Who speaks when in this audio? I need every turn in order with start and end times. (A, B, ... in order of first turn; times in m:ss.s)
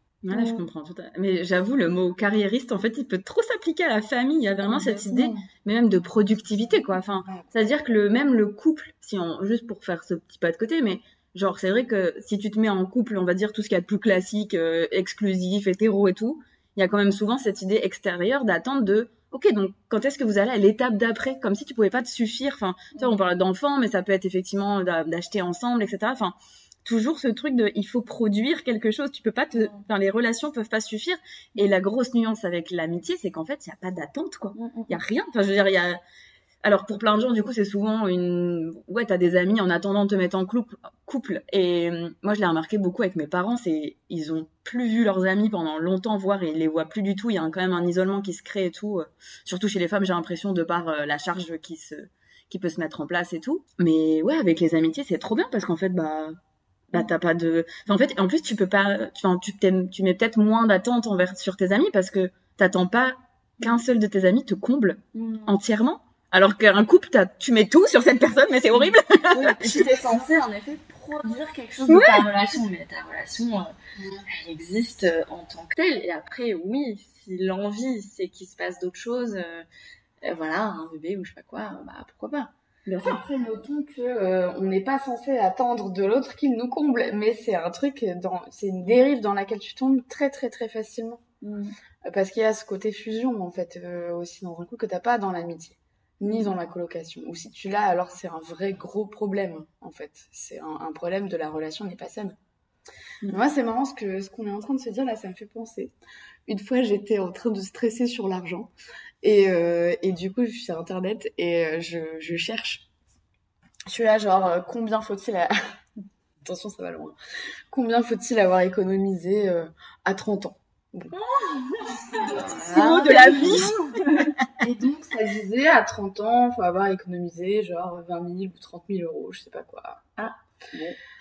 0:00.2-0:36.0 A
0:00.3-0:00.6 B
0:04.6-0:05.4 C
0:29.5-0:29.8 B
0:34.6-0:35.0 B
0:36.6-0:56.4 A
0:56.9-1:10.0 A
1:05.1-1:05.6 B
1:09.3-1:13.7 B
1:11.9-1:12.3 A
1:14.3-1:19.6 B
1:20.2-1:22.5 B
1:22.8-1:23.2 A
1:23.0-1:31.2 C
1:31.4-1:31.7 B
1:32.0-1:42.4 C
1:43.3-1:45.9 C
1:46.4-1:48.7 C
1:49.2-1:52.8 C
1:53.9-1:55.5 C
1:56.4-1:57.1 C
1:57.7-2:01.1 C
2:01.1-2:04.3 B
2:02.3-2:03.9 C
2:02.6-2:03.7 A
2:04.6-2:10.1 C
2:10.2-2:11.0 B